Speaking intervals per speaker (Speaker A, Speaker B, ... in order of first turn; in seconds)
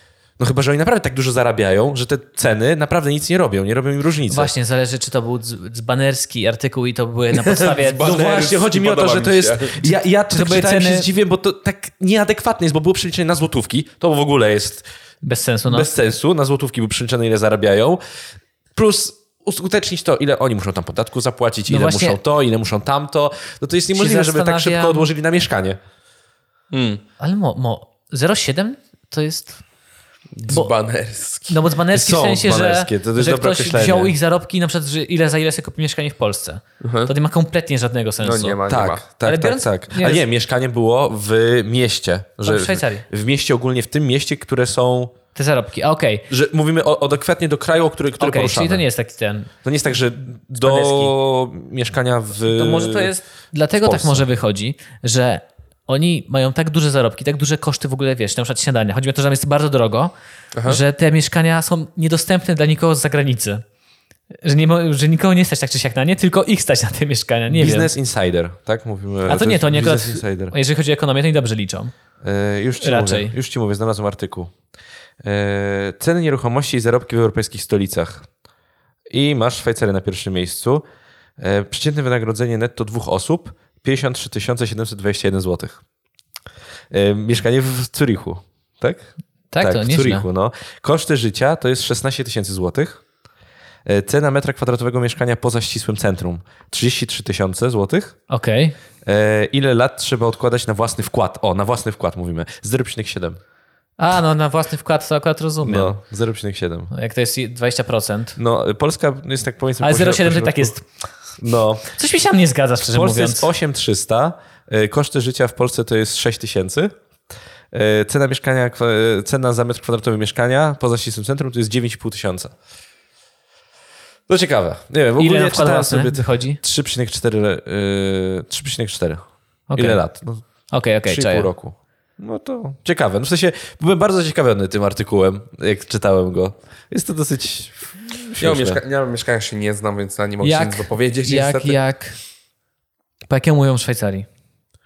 Speaker A: 0.4-4.5, 8.0-14.8, 15.7-18.0, 18.8-25.8, 31.9-34.1, 38.7-45.1, 46.3-48.8, 49.6-53.1, 53.7-54.3, 67.5-70.5, 72.2-74.5, 75.2-78.3, 79.1-80.8, 81.4-85.8, 86.9-89.1, 89.6-93.0, 93.8-98.2, 99.0-103.4, 105.6-106.9, 108.4-110.8, 111.4-111.9, 112.9-117.0, 117.7-122.5, 124.3-130.4, 131.1-138.8
Speaker B: 4.3-8.3, 10.3-11.1, 15.2-15.9, 21.7-22.2, 23.9-25.1, 27.2-29.6, 30.5-30.7, 31.5-38.6, 39.2-40.2, 42.4-43.1, 45.3-46.3, 48.2-49.5, 50.6-51.1, 52.5-60.1, 60.6-63.6, 64.4-67.9, 69.3-71.9, 72.8-73.3, 89.5-90.3, 98.3-98.8, 104.0-105.9, 106.9-108.4, 109.8-110.8, 111.9-113.5, 125.2-126.6, 129.7-130.0, 130.7-131.5, 140.4-142.2, 143.3-144.3
Speaker C: 7.4-9.8, 26.7-27.0, 30.4-31.6, 36.8-37.1, 38.2-39.0, 60.5-60.8, 138.4-141.8